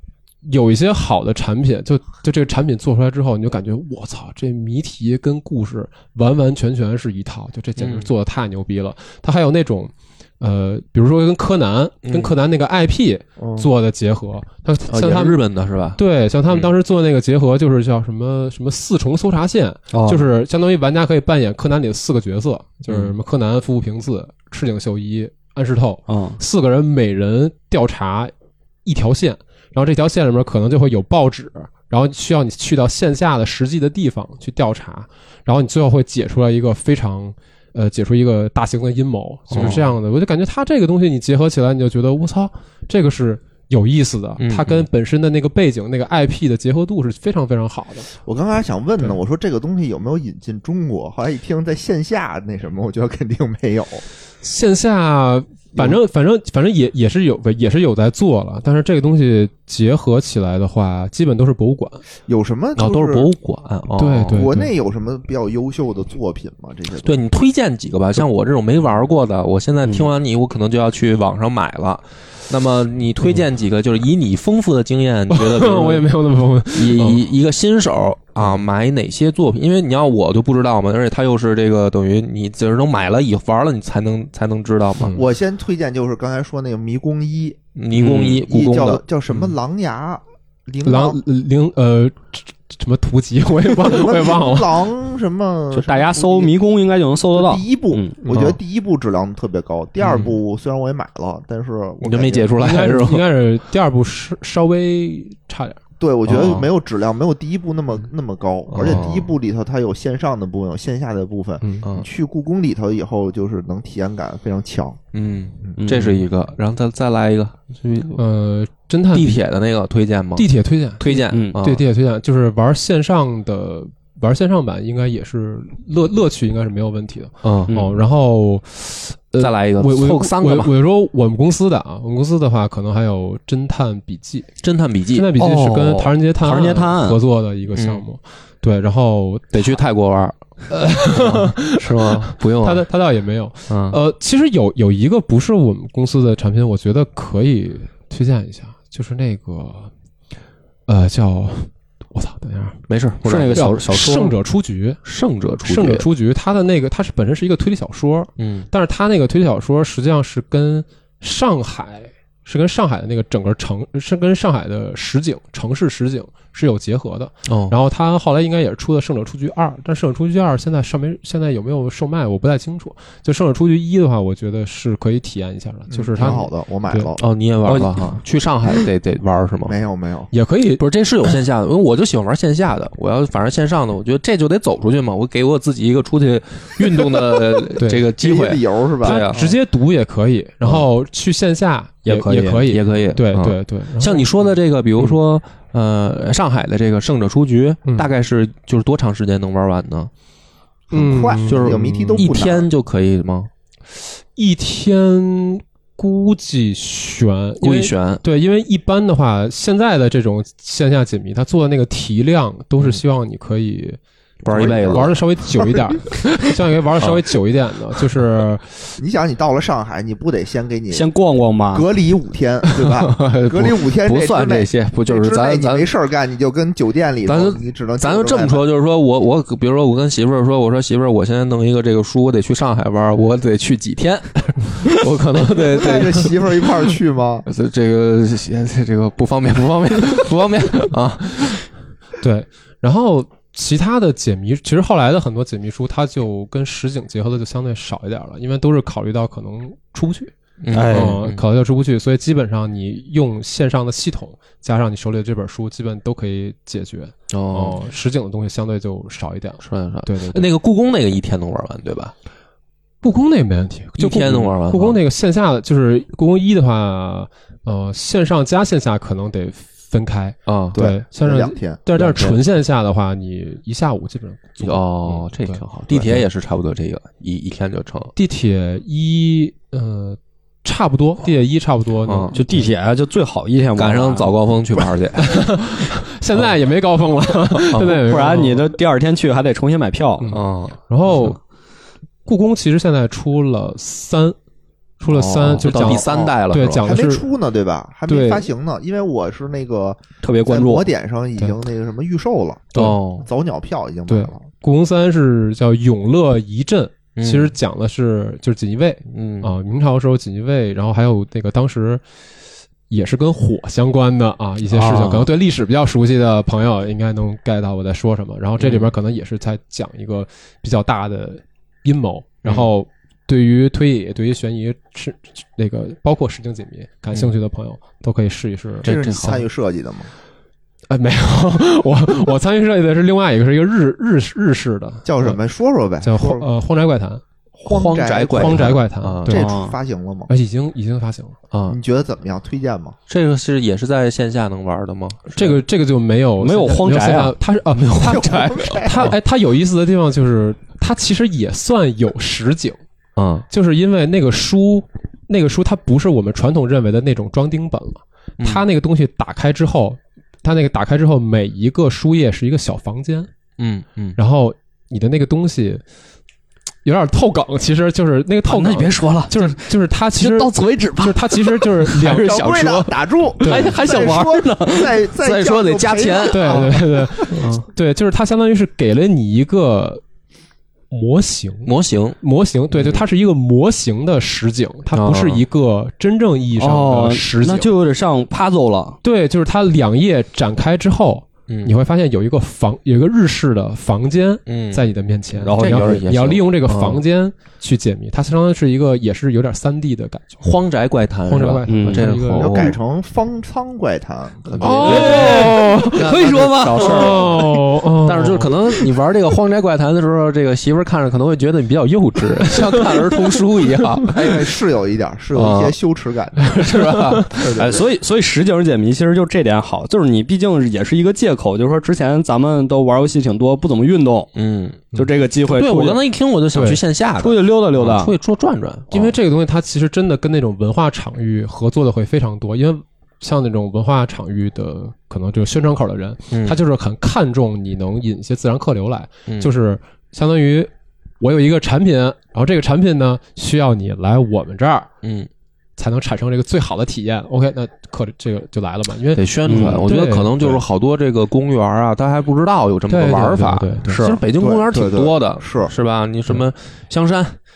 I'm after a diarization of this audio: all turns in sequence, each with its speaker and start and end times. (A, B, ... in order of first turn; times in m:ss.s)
0:00.4-0:15.4 A
0:07.8-0:08.1 B
0:12.0-0:12.3 B
0:13.4-0:13.7 C
0:14.9-0:16.7 B
0:16.0-0:28.3 A
0:19.9-0:20.2 D
0:22.9-0:23.1 B
0:26.1-0:26.4 D
0:28.8-0:48.1 A
0:39.5-0:39.8 B
0:44.4-0:44.8 B
0:48.2-0:54.0 C
0:54.4-1:02.0 A
1:02.3-1:03.3 C
1:02.8-1:04.5 B
1:04.0-1:04.7 A
1:04.3-1:07.2 C
1:07.0-1:16.1 B
1:15.3-1:17.2 A
1:16.7-1:25.2 B
1:25.1-1:27.6 C
1:27.8-1:29.0 B
1:27.9-1:28.4 D
1:28.3-1:31.2 C
1:30.8-1:34.8 A
1:33.8-1:36.5 C
1:35.7-1:38.2 D
1:37.3-1:42.6 C
1:38.3-1:38.6 B
1:40.0-1:40.3 B
1:42.0-1:43.2 B
1:42.6-1:45.8 A
1:46.0-1:55.0 C
1:46.2-1:46.7 B
1:48.7-1:49.3 B
1:51.6-1:51.9 A
1:55.1-1:58.2 B
1:55.8-1:56.2 D
1:58.2-1:59.4 A
1:59.1-2:01.8 B
2:00.4-2:14.5 A
2:01.3-2:01.6 D
2:07.4-2:07.7 B
2:07.7-2:08.0 D
2:09.4-2:10.7 B
2:14.6-2:15.3 B
2:15.1-2:19.8 A
2:15.4-2:17.2 D
2:17.7-2:18.0 B
2:19.5-2:20.4 B
2:20.7-2:29.9 A
2:21.0-2:22.8 B
2:23.7-2:24.0 B
2:30.9-2:32.8 A
2:32.9-2:33.7 B
2:33.2-2:34.3 D
2:33.5-2:35.0 A
2:35.0-2:36.0 B
2:35.6-2:57.1 A
2:38.4-2:38.7 B
2:47.4-2:47.7 B
2:55.9-2:57.2 C
2:57.2-2:59.8 B
2:57.7-2:57.9 D
2:59.6-3:00.3 C
3:00.3-3:01.4 A
3:00.8-3:09.4 B
3:07.8-3:08.0 A
3:08.1-3:09.5 C
3:09.0-3:14.4 A
3:12.0-3:12.6 D
3:12.6-3:20.1 B
3:20.9-3:22.7 C
3:20.9-3:22.3 A
3:21.4-3:23.5 B
3:24.3-3:34.0 A
3:27.6-3:28.2 B
3:34.4-3:35.1 B
3:34.5-3:35.7 C
3:34.5-3:39.0 A
3:39.0-3:41.1 C
3:40.9-3:41.8 D
3:41.7-3:48.6 C
3:42.8-3:45.9 B
3:47.2-3:56.4 B
3:55.7-3:57.4 C
3:57.4-4:01.7 B
4:02.2-4:10.3 A
4:10.6-4:11.4 B
4:10.7-4:11.2 D
4:10.9-4:20.5 A
4:17.3-4:17.8 B
4:19.6-4:22.1 B
4:23.0-4:36.2 A
4:24.0-4:25.0 B
4:30.5-4:30.9 B
4:30.7-4:31.8 C
4:32.0-4:32.4 B
4:34.6-4:38.1 B
4:38.1-4:42.7 A
4:42.0-4:42.4 B
4:42.3-4:44.3 D
4:43.8-4:45.5 B
4:45.2-4:48.7 A
4:47.7-4:48.0 B
4:47.8-4:50.3 D
4:50.2-4:51.4 A
4:50.3-4:51.3 B
4:52.2-4:54.4 A
4:55.0-4:57.3 A
4:55.1-5:04.4 C
4:55.4-4:57.0 B
4:58.1-4:58.5 A
5:00.2-5:00.9 D
5:02.8-5:03.3 B
5:04.1-5:12.0 A
5:07.2-5:07.5 B
5:09.1-5:09.5 B
5:12.9-5:29.4 A
5:14.7-5:15.2 D
5:18.6-5:18.9 B
5:28.8-5:29.4 B
5:28.8-5:30.1 C
5:30.9-5:35.4 A
5:35.0-5:36.5 C
5:36.0-5:37.2 A
5:37.6-5:40.3 C
5:37.6-5:39.4 B
5:38.3-5:39.5 A
5:39.3-5:39.8 D
5:40.3-5:41.4 A
5:41.5-5:41.8 B
5:41.7-5:43.0 C
5:43.1-5:45.6 B
5:45.3-5:52.8 A
5:46.4-5:47.4 D
5:47.7-5:49.1 B
5:48.0-5:49.1 C
5:53.2-5:53.4 B
5:53.5-6:03.3 A
6:03.6-6:04.2 B
6:04.2-6:05.8 A
6:06.8-6:12.7 A
6:08.5-6:12.0 D
6:12.0-6:17.4 C
6:12.1-6:12.9 B
6:13.4-6:13.8 A
6:13.4-6:15.0 D
6:13.5-6:14.2 B
6:15.0-6:16.8 B
6:16.3-6:20.0 A
6:17.3-6:17.6 B
6:20.9-6:27.7 A
6:21.6-6:22.2 B
6:22.7-6:23.0 B
6:24.9-6:25.4 B
6:26.6-6:29.0 D
6:29.0-6:40.4 A
6:31.5-6:31.7 B
6:34.5-6:34.8 B
6:35.4-6:36.1 D
6:35.5-6:37.0 B
6:40.4-6:42.8 B
6:41.2-6:42.7 A
6:41.7-6:42.1 D
6:42.3-6:45.5 C
6:44.5-6:54.3 B
6:44.6-6:45.9 A
6:44.8-6:47.5 D
6:46.8-6:48.5 A
6:54.0-6:56.6 C
6:55.3-6:55.8 B
6:56.4-6:57.5 A
6:56.5-6:57.4 B
6:57.4-7:04.3 D
6:57.4-6:57.8 C
7:04.3-7:04.8 B
7:04.9-7:06.0 D
7:05.4-7:09.1 B
7:06.5-7:06.8 A
7:07.2-7:08.1 D
7:08.9-7:20.7 A
7:16.3-7:16.6 B
7:21.2-7:24.9 A
7:25.0-7:25.3 B
7:25.8-7:30.6 A
7:29.1-7:37.4 B
7:29.4-7:29.8 D
7:32.9-7:34.0 A
7:33.8-7:34.2 D
7:34.4-7:35.7 C